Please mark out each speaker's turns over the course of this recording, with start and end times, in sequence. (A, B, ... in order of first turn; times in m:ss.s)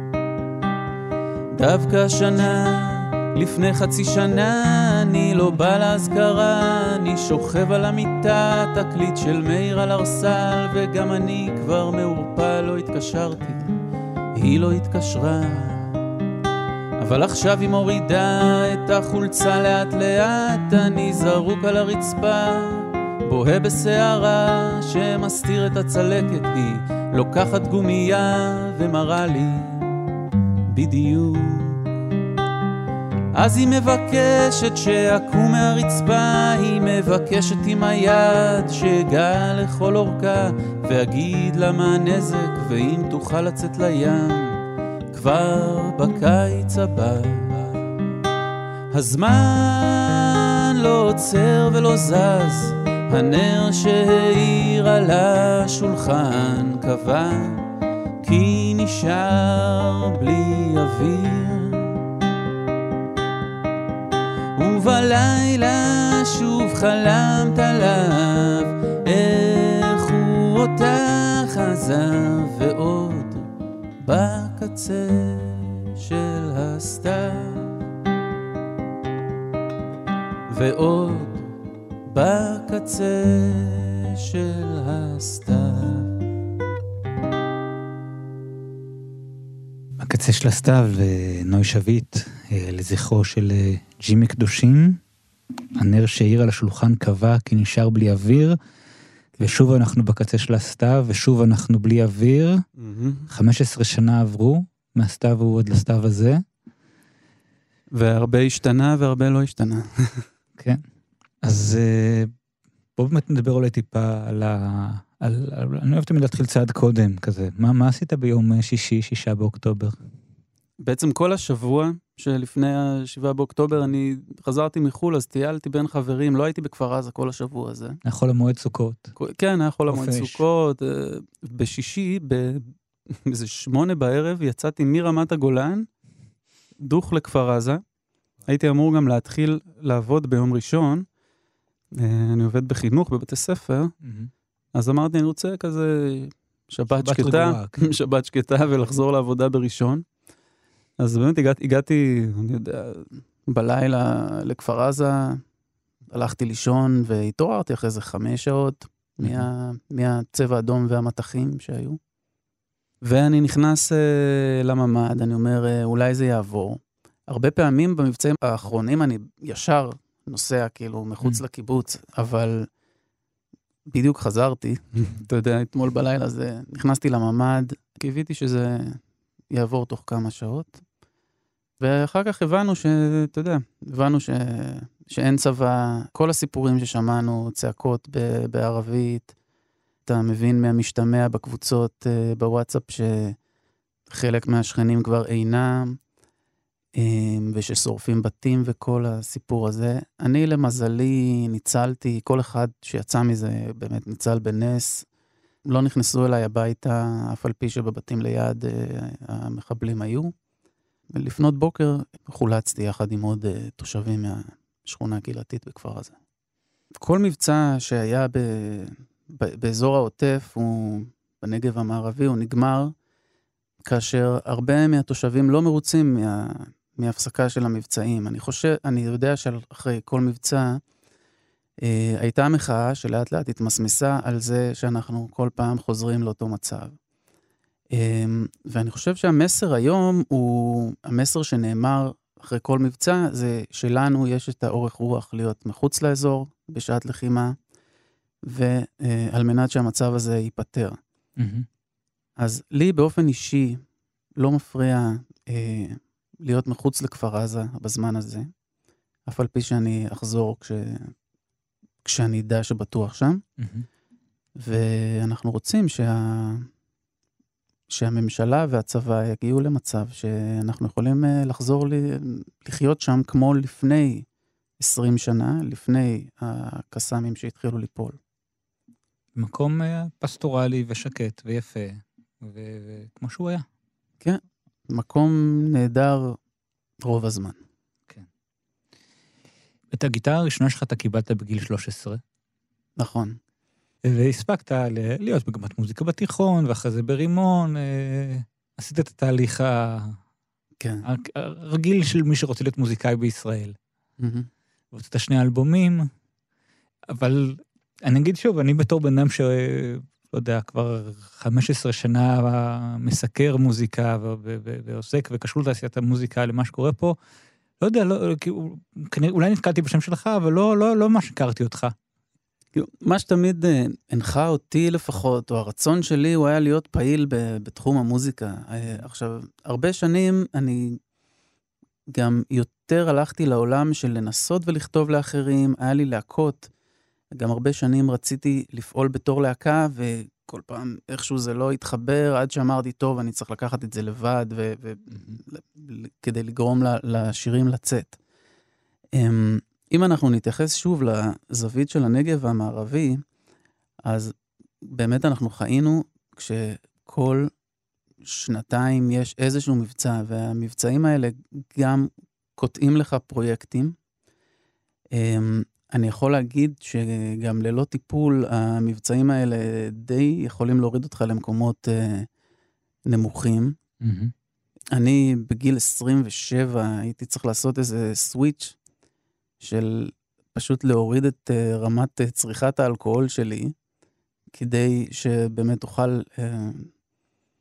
0:01.5-0:13.7 A
0:14.3-0:15.9 A
0:17.0-0:29.9 A
0:30.7-0:31.8 A
0:33.3-0:44.6 A
0:45.1-0:47.9 A
0:48.9-0:57.6 A
0:58.2-1:02.0 A
1:04.6-1:13.5 A
1:14.0-1:17.8 A
1:20.5-1:21.5 A
1:22.1-1:26.1 A
1:30.0-1:35.0 B
1:35.8-1:38.6 B
1:39.4-1:39.6 A
1:39.4-1:42.6 B
1:42.8-1:43.3 A
1:43.3-1:46.4 B
1:47.9-1:50.2 A
1:50.6-1:50.8 B
1:51.4-1:52.3 B
1:53.0-2:00.0 B
2:00.8-2:08.0 A
2:08.0-2:09.1 B
2:09.2-2:15.9 A
2:09.9-2:10.4 B
2:16.8-2:17.8 A
2:18.5-2:21.0 A
2:22.0-2:23.9 A
2:24.0-2:24.3 B
2:24.7-2:30.0 A
2:26.9-2:27.9 B
2:31.0-2:35.4 A
2:36.1-2:42.0 A
2:39.2-2:39.5 B
2:43.0-2:52.7 A
2:53.9-2:59.0 A
2:59.5-3:00.8 A
3:01.8-3:09.3 A
3:10.0-3:13.4 A
3:14.1-3:16.0 A
3:17.0-3:25.0 A
3:25.7-3:30.3 A
3:31.1-3:36.1 A
3:37.0-3:42.9 A
3:43.8-3:50.8 A
3:51.8-3:56.9 A
3:57.9-4:07.6 A
4:08.5-4:11.0 A
4:11.4-4:11.6 B
4:12.4-4:13.8 A
4:14.4-4:18.5 A
4:19.3-4:21.1 A
4:22.0-4:23.4 A
4:23.6-4:23.9 B
4:24.6-4:26.7 A
4:27.9-4:34.2 A
4:34.8-4:38.2 A
4:39.3-4:43.6 B
4:44.2-4:46.4 A
4:47.0-4:47.6 A
4:49.9-4:52.2 B
4:53.0-4:53.4 A
4:54.0-5:00.2 B
5:00.8-5:01.1 A
5:01.0-5:03.8 B
5:04.2-5:04.5 A
5:04.9-5:06.1 B
5:07.1-5:17.2 B
5:17.8-5:21.9 B
5:22.7-5:31.0 A
5:32.1-5:36.7 A
5:37.4-5:48.2 A
5:49.1-5:53.2 A
5:54.0-5:57.5 A
5:58.2-6:04.0 A
6:05.1-6:12.3 A
6:13.1-6:13.7 A
6:14.0-6:14.3 B
6:14.9-6:18.8 A
6:19.6-6:23.7 A
6:24.5-6:26.9 A